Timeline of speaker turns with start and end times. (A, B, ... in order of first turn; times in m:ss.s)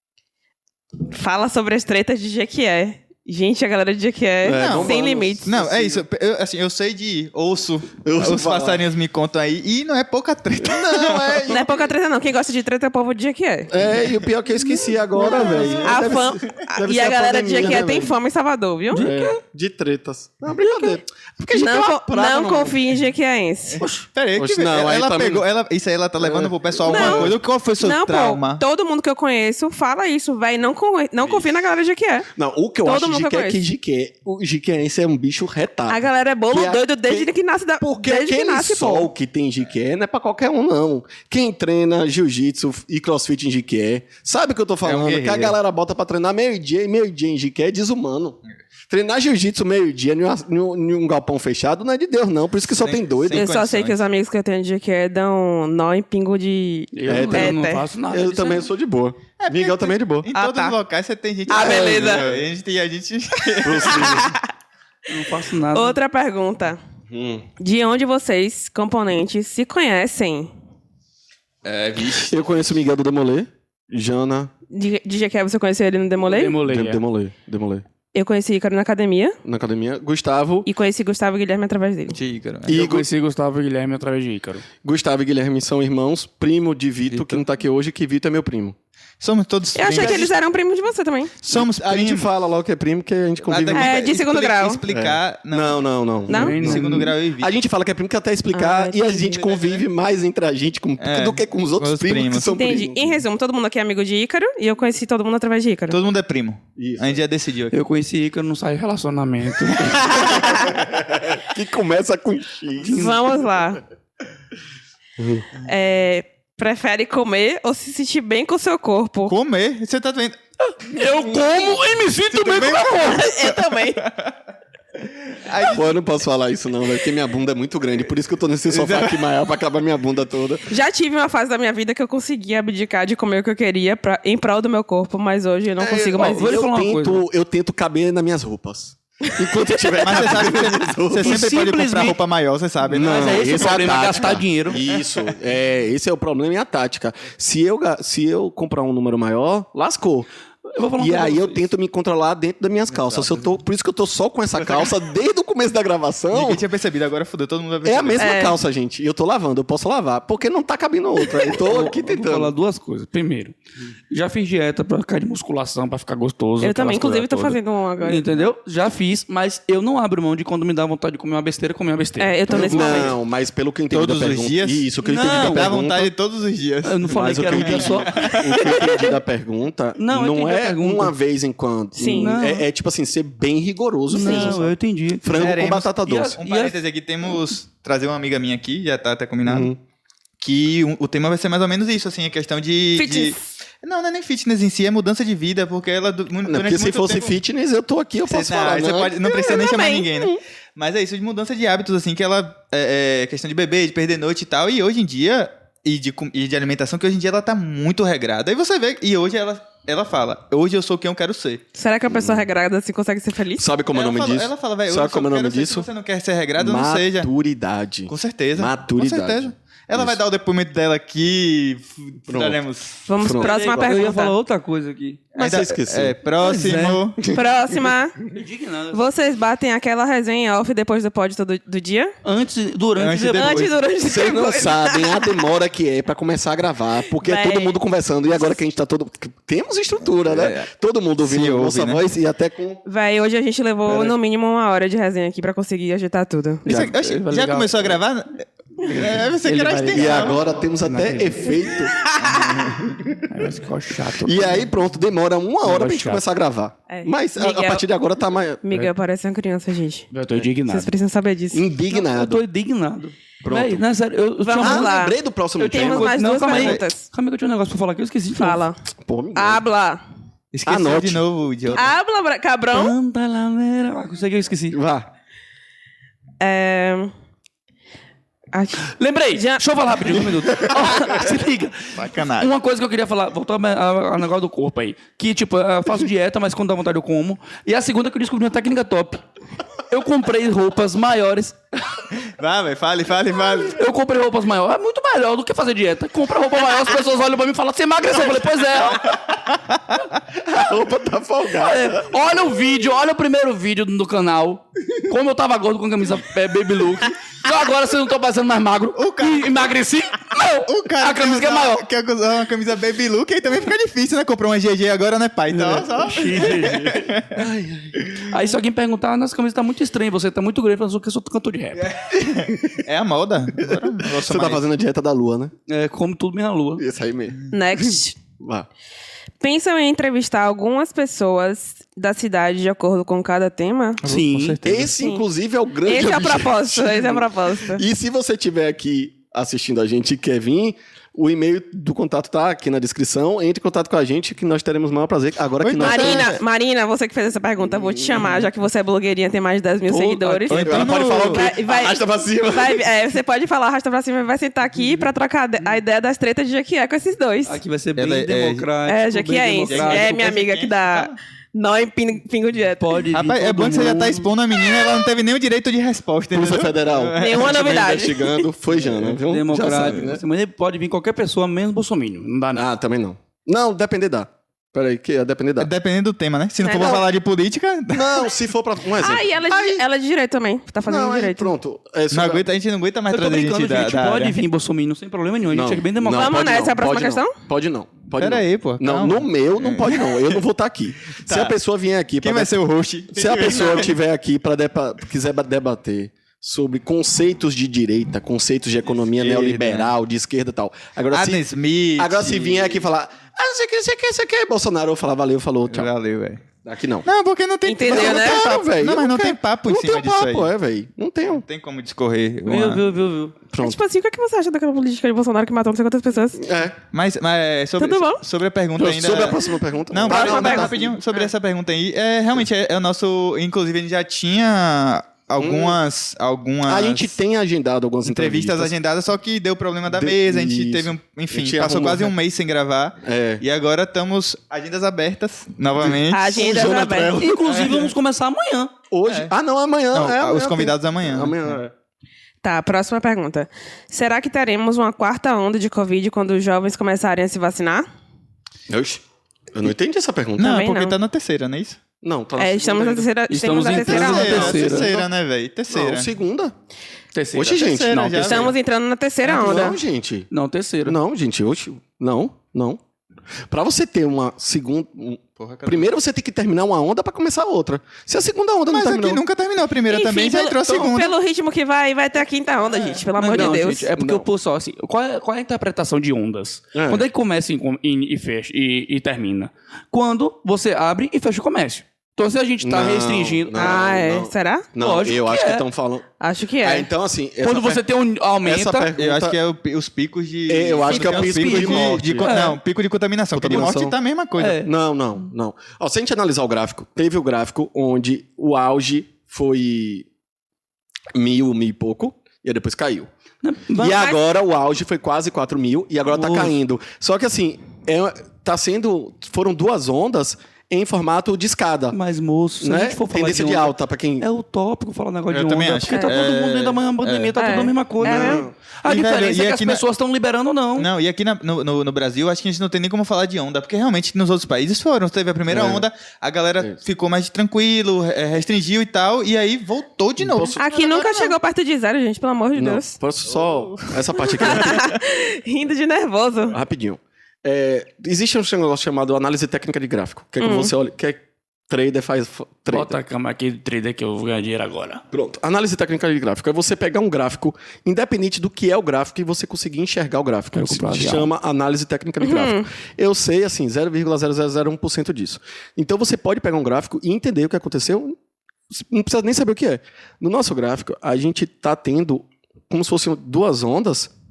0:01.0-0:05.5 A
0:04.4-0:06.0 B
0:04.5-0:11.5 C
0:08.0-0:08.8 B
0:10.6-0:11.9 B
0:11.4-0:13.7 A
0:13.7-0:18.1 B
0:15.2-0:19.1 A
0:15.2-0:16.0 C
0:18.9-0:22.8 B
0:18.9-0:19.3 D
0:21.5-0:23.8 A
0:24.1-0:28.6 C
0:24.4-0:25.4 B
0:26.2-0:27.4 B
0:26.8-0:32.3 A
0:32.3-0:53.5 B
0:32.8-0:33.6 A
0:35.9-0:39.1 A
0:44.8-0:45.6 C
0:52.7-0:54.0 C
0:53.3-0:57.8 A
0:57.0-0:58.6 D
0:57.1-1:00.3 B
0:59.4-1:04.2 C
1:00.3-1:00.8 A
1:01.5-1:02.3 A
1:01.5-1:02.4 B
1:03.6-1:04.3 B
1:03.8-1:04.4 A
1:05.1-1:06.0 D
1:05.7-1:06.8 A
1:07.1-1:07.5 B
1:07.6-1:10.5 A
1:11.6-1:12.4 C
1:12.0-1:14.5 B
1:14.7-1:16.6 A
1:16.2-1:17.0 D
1:16.6-1:17.8 B
1:18.1-1:19.4 A
1:19.4-1:20.7 B
1:20.6-1:22.2 A
1:22.1-1:22.8 C
1:22.6-1:23.1 B
1:22.7-1:24.6 D
1:24.8-1:28.8 B
1:27.1-1:27.4 C
1:29.2-1:30.3 C
1:29.7-1:31.3 A
1:29.9-1:30.3 B
1:31.4-1:32.3 C
1:31.5-1:34.0 B
1:33.4-1:37.5 C
1:33.7-1:34.8 A
1:34.9-1:43.2 B
1:36.3-1:36.6 A
1:36.3-1:37.2 D
1:38.5-1:39.4 A
1:39.4-1:39.8 C
1:41.0-1:42.6 C
1:42.5-1:46.0 A
1:45.9-1:47.8 C
1:46.8-1:47.2 B
1:47.7-1:50.3 D
1:49.9-1:53.1 B
1:50.1-1:50.6 A
1:52.8-1:53.8 A
1:52.9-1:53.2 D
1:55.2-1:55.5 B
1:55.5-1:59.3 A
1:59.3-2:00.4 C
2:00.6-2:03.4 D
2:02.3-2:04.3 C
2:03.0-2:04.1 A
2:05.3-2:06.0 C
2:05.6-2:10.7 B
2:08.7-2:09.2 C
2:10.7-2:16.6 A
2:15.8-2:21.4 B
2:16.1-2:17.2 D
2:20.0-2:23.7 C
2:21.2-2:22.2 D
2:22.9-2:30.3 B
2:22.9-2:24.8 D
2:30.7-2:31.6 D
2:31.0-2:36.6 B
2:32.9-2:33.4 C
2:36.3-2:38.3 C
2:37.8-2:42.5 B
2:38.2-2:38.6 A
2:41.5-2:43.5 D
2:44.1-2:53.1 D
2:46.6-2:48.2 A
2:52.2-2:53.1 A
2:52.5-2:56.1 B
2:53.9-2:58.8 C
2:55.0-2:55.8 D
2:56.8-2:59.1 D
2:57.1-3:06.4 B
3:00.0-3:01.1 D
3:01.9-3:02.3 A
3:02.0-3:02.6 D
3:04.1-3:06.8 D
3:04.1-3:04.6 A
3:05.3-3:09.7 C
3:09.4-3:09.8 B
3:10.4-3:17.4 C
3:12.9-3:13.5 A
3:16.4-3:19.7 B
3:18.3-3:31.6 C
3:19.2-3:20.1 A
3:31.7-3:33.6 A
3:32.1-3:32.5 B
3:33.6-3:35.9 B
3:33.9-3:37.3 C
3:36.6-3:40.2 B
3:38.1-3:43.0 C
3:42.3-3:42.6 B
3:43.0-3:44.3 A
3:43.2-3:43.9 B
3:43.4-3:45.2 D
3:45.3-3:47.2 C
3:45.4-3:46.2 B
3:46.4-3:47.1 D
3:47.2-3:47.9 B
3:47.3-3:48.2 A
3:48.2-3:49.1 D
3:48.9-3:52.1 A
3:52.2-3:53.7 D
3:53.0-3:53.7 C
3:53.3-3:55.3 A
3:54.0-4:02.8 B
3:57.2-3:57.8 A
4:00.2-4:00.7 C
4:01.2-4:02.0 C
4:02.8-4:06.6 A
4:03.8-4:04.1 D
4:06.6-4:06.9 B
4:06.6-4:08.0 D
4:06.7-4:10.4 C
4:08.9-4:11.6 D
4:09.9-4:12.0 B
4:12.1-4:12.6 A
4:13.3-4:14.7 D
4:14.2-4:18.6 B
4:15.6-4:16.2 D
4:16.9-4:17.8 A
4:18.6-4:20.1 A
4:20.1-4:20.9 D
4:20.7-4:21.6 A
4:21.5-4:22.4 B
4:21.9-4:25.0 D
4:23.4-4:23.8 B
4:24.4-4:27.0 A
4:24.6-4:26.2 B
4:25.6-4:28.6 D
4:26.5-4:26.8 C
4:28.4-4:28.8 A
4:29.0-4:29.6 B
4:29.3-4:30.0 A
4:30.5-4:31.9 C
4:30.6-4:31.8 B
4:31.7-4:32.9 A
4:32.7-4:34.8 D
4:34.7-4:35.1 B
4:36.4-4:37.1 A
4:38.5-4:39.6 A
4:38.8-4:49.2 D
4:40.6-4:40.9 B
4:42.0-4:42.5 C
4:49.9-4:51.6 D
4:52.3-4:53.8 C
4:53.7-4:59.2 D
5:00.3-5:02.1 B
5:01.6-5:11.8 D
5:09.0-5:09.7 C
5:10.6-5:17.4 C
5:15.5-5:17.1 D
5:17.3-5:18.2 B
5:18.2-5:21.9 D
5:21.8-5:24.6 C
5:23.6-5:25.5 B
5:25.7-5:26.8 D
5:26.8-5:27.5 B
5:27.5-5:28.2 A
5:28.4-5:28.7 B
5:29.4-5:34.0 A
5:34.0-5:34.9 C
5:34.0-5:34.6 D
5:34.6-5:46.4 B
5:35.8-5:37.8 A
5:45.6-5:46.4 C
5:45.8-5:57.6 A
5:47.6-5:48.3 B
5:49.9-5:51.2 D
5:50.5-5:51.5 C
5:50.6-5:52.8 B
5:57.4-6:00.2 D
5:58.0-5:58.7 C
5:58.8-6:03.0 A
5:59.7-6:01.2 C
6:02.8-6:04.3 D
6:03.1-6:08.1 C
6:06.3-6:10.2 B
6:07.2-6:08.4 A
6:09.2-6:12.6 D
6:12.5-6:15.7 B
6:15.6-6:18.3 C
6:16.6-6:17.1 B
6:17.9-6:19.8 B
6:19.0-6:21.5 A
6:20.8-6:22.4 B
6:22.1-6:24.4 C
6:23.1-6:26.8 D
6:25.5-6:41.4 B
6:26.1-6:27.3 A
6:28.2-6:30.4 C
6:31.2-6:31.6 C
6:32.2-6:33.9 C
6:39.2-6:39.9 C
6:41.1-6:42.8 C
6:42.0-6:45.9 B
6:45.7-6:46.4 C
6:46.6-6:47.1 B
6:47.0-6:50.5 C
6:47.6-6:48.6 A
6:47.8-6:51.4 B
6:51.4-6:52.8 C
6:52.4-6:53.3 D
6:53.5-6:53.8 B
6:53.6-6:56.4 A
6:56.3-6:56.8 B
6:56.9-7:07.1 C
6:57.8-6:58.2 A
6:58.8-7:01.0 B
7:00.0-7:01.3 A
7:05.4-7:05.8 B
7:06.6-7:08.7 B
7:08.0-7:17.9 C
7:09.9-7:12.1 B
7:13.0-7:13.4 B
7:15.8-7:17.4 B
7:16.1-7:17.2 A
7:17.1-7:18.7 D
7:18.9-7:21.7 B
7:19.1-7:19.3 C
7:19.9-7:21.5 C
7:22.4-7:27.8 A
7:28.7-7:30.6 B
7:30.4-7:31.8 C
7:30.4-7:31.0 A
7:32.0-7:33.1 B
7:32.4-7:34.6 A
7:33.3-7:34.9 D
7:33.7-7:35.0 B
7:33.8-7:36.1 C
7:35.7-7:36.5 B
7:37.1-7:38.5 D
7:37.3-7:38.5 B
7:37.4-7:38.5 C
7:38.2-7:39.8 A
7:39.2-7:40.3 B
7:40.3-7:41.0 D
7:40.8-7:42.8 B
7:43.5-7:49.2 B
7:45.4-7:45.9 C
7:48.7-7:51.1 C
7:49.9-7:53.9 A
7:53.2-8:03.8 D
7:53.3-7:54.2 B
7:56.7-7:57.1 B
8:02.6-8:06.0 B
8:03.5-8:04.7 A
8:04.8-8:05.6 D
8:06.2-8:06.9 A
8:06.6-8:07.8 B
8:07.4-8:08.9 D
8:08.4-8:09.4 B
8:09.0-8:14.6 C
8:10.5-8:12.4 B
8:10.9-8:12.6 D
8:13.3-8:14.0 B
8:14.4-8:14.7 D
8:14.6-8:20.1 B
8:21.1-8:23.1 B
8:23.4-8:24.0 D
8:23.8-8:32.0 B
8:23.9-8:24.2 A
8:26.1-8:26.5 D
8:31.9-8:40.9 D
8:32.6-8:34.3 B
8:35.3-8:39.8 C
8:35.9-8:36.3 A
8:37.3-8:38.4 A
8:38.0-8:38.5 B
8:40.8-8:51.4 C
8:45.5-8:45.9 B
8:50.2-8:50.6 B
8:50.6-8:53.0 A
8:52.5-8:54.8 B
8:54.1-8:56.6 A
8:56.5-9:03.0 B
9:00.4-9:00.7 A
9:02.7-9:05.0 D
9:05.1-9:18.2 B
9:10.5-9:11.3 D
9:12.2-9:12.7 A
9:18.7-9:24.1 B